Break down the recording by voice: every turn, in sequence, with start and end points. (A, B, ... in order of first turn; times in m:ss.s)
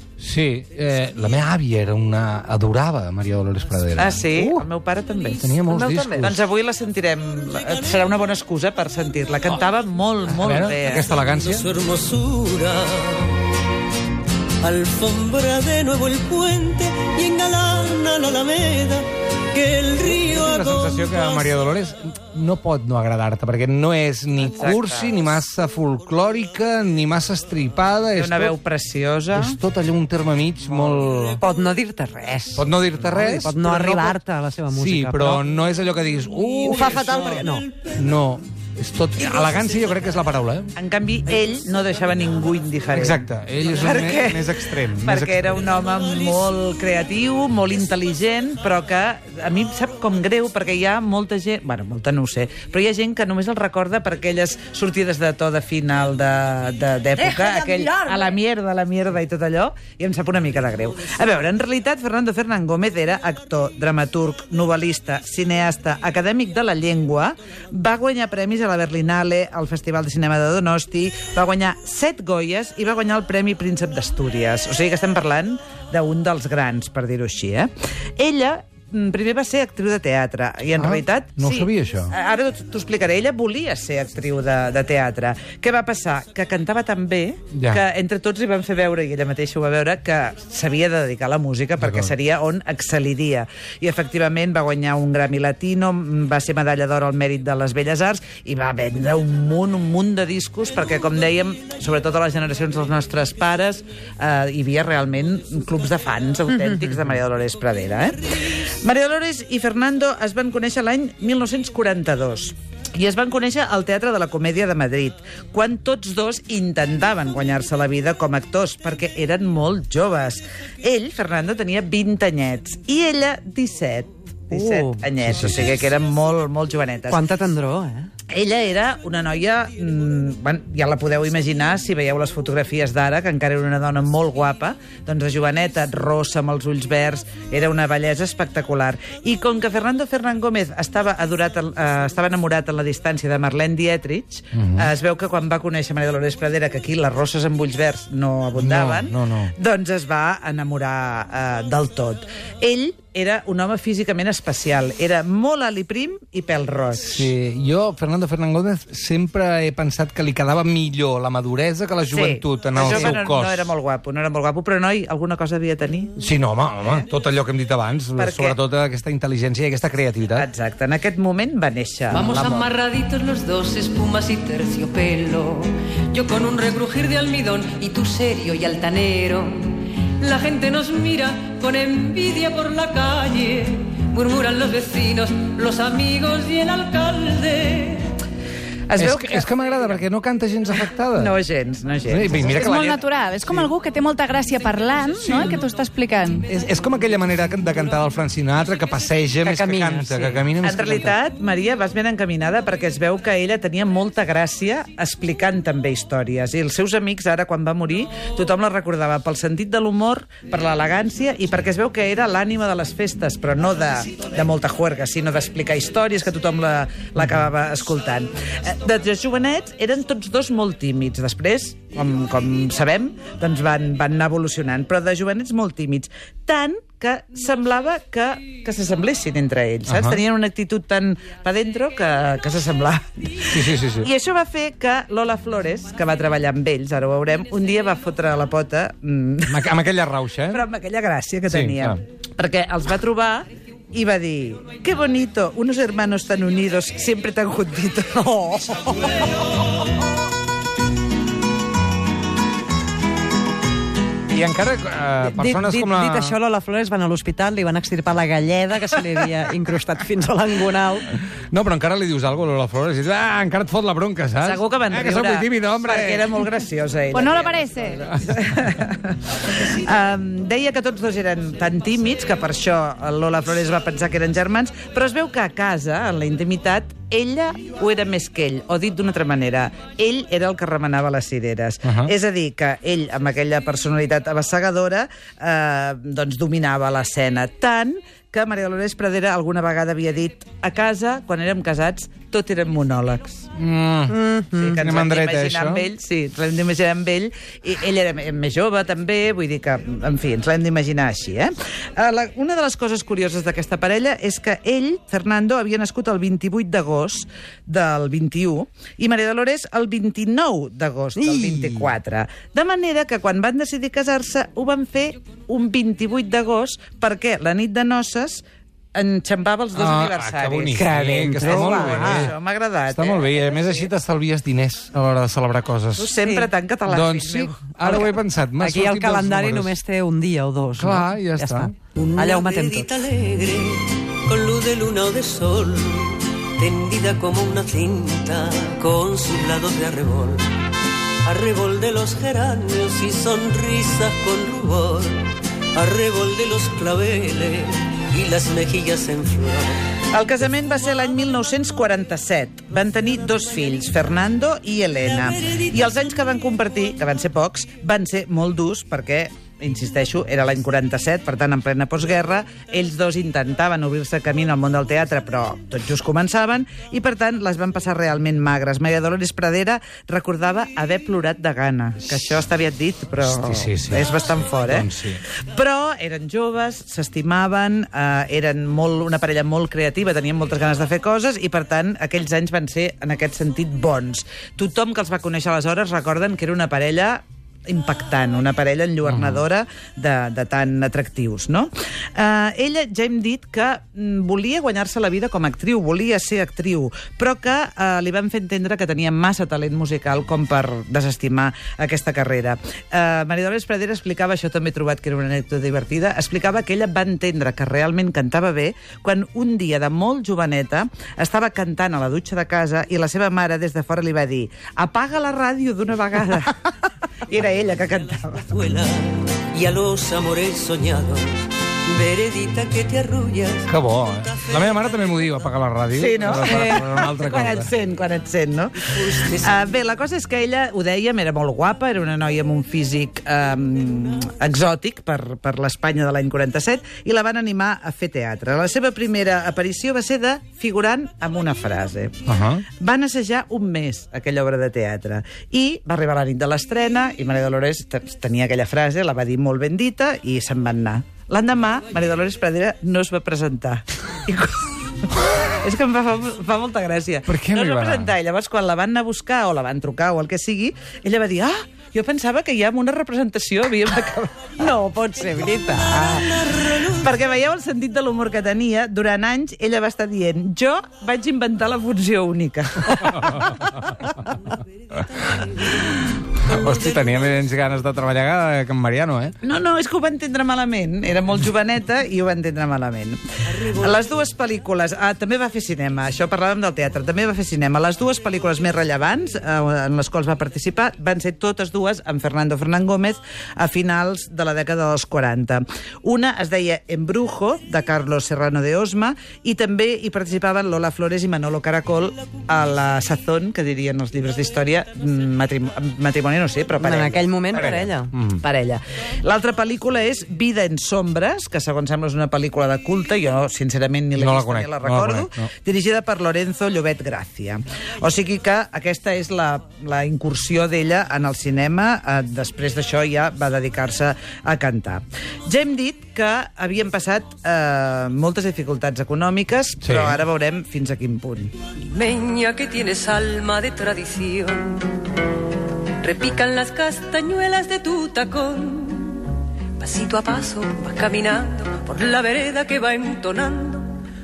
0:00.2-0:04.7 A
0:04.0-0:05.6 B
0:05.4-0:06.4 A
0:05.7-0:06.3 C
0:06.2-0:11.1 B
0:10.3-0:11.7 A
0:11.4-0:13.4 D
0:14.6-0:21.5 D
0:20.1-0:28.6 A
0:24.4-0:25.3 B
0:28.2-0:29.6 B
0:29.3-0:31.4 A
0:31.4-0:35.4 C
0:32.6-0:34.2 A
0:34.7-0:40.7 A
0:36.6-0:37.7 C
0:40.8-2:07.2 B
0:42.9-0:45.6 A
1:20.8-1:22.1 A
1:27.5-1:27.8 A
1:31.8-1:32.1 A
2:04.5-2:05.0 C
2:05.2-2:05.8 A
2:07.1-2:08.1 C
2:08.3-2:37.3 B
2:24.5-2:24.9 A
2:28.6-2:29.5 A
2:37.0-2:43.7 A
2:42.1-2:46.1 B
2:46.2-2:50.5 A
2:48.2-2:48.6 B
2:50.4-2:52.7 B
2:52.1-3:05.5 E
2:57.7-2:58.0 D
3:00.4-3:02.0 D
3:04.8-3:06.0 D
3:06.0-3:08.2 E
3:08.9-3:09.5 B
3:09.0-3:11.4 A
3:11.2-3:12.5 B
3:12.1-3:13.7 A
3:12.4-3:16.5 F
3:15.2-3:15.6 A
3:16.5-3:21.2 A
3:19.4-3:20.4 C
3:20.6-3:59.7 B
3:49.9-3:50.2 A
3:53.5-3:54.1 A
3:59.5-4:00.6 A
4:00.5-4:09.3 B
4:01.5-4:02.0 A
4:14.3-4:16.4 A
4:15.2-4:21.1 C
4:21.3-4:26.5 A
4:24.4-4:27.6 B
4:27.1-4:28.1 F
4:28.2-4:53.5 B
4:41.8-4:42.1 A
4:53.6-4:54.2 A
4:54.2-4:54.6 C
4:54.5-5:18.4 B
4:54.7-4:55.8 A
5:11.2-5:11.8 C
5:19.0-5:23.3 B
5:19.8-5:22.3 A
5:21.3-5:22.3 C
5:22.9-5:26.1 A
5:26.0-5:28.1 B
5:26.2-5:26.5 C
5:26.9-5:29.8 A
5:28.6-5:32.9 C
5:30.8-5:31.7 A
5:32.0-5:40.5 D
5:41.2-5:49.8 D
5:50.1-6:56.6 B
6:13.2-6:15.2 A
6:29.0-6:29.4 A
6:57.3-6:58.6 B
6:58.5-7:04.4 D
7:03.7-7:07.7 A
7:05.9-7:22.2 B
7:08.8-7:09.7 D
7:22.3-7:22.6 A
7:22.8-7:53.5 B
7:37.3-7:38.1 A
7:46.0-7:47.1 D
7:53.1-7:54.1 A
7:56.4-7:59.4 A
7:59.4-8:03.2 B
8:03.5-8:04.0 D
8:03.7-8:27.7 B
8:26.8-8:28.1 C
8:27.5-8:28.4 A
8:28.4-8:51.5 B
8:34.2-8:35.5 A
8:49.8-8:50.2 A
8:51.9-8:54.9 E
8:56.0-8:59.2 E
8:59.8-9:01.0 E
9:01.6-9:02.7 D
9:02.7-9:03.3 E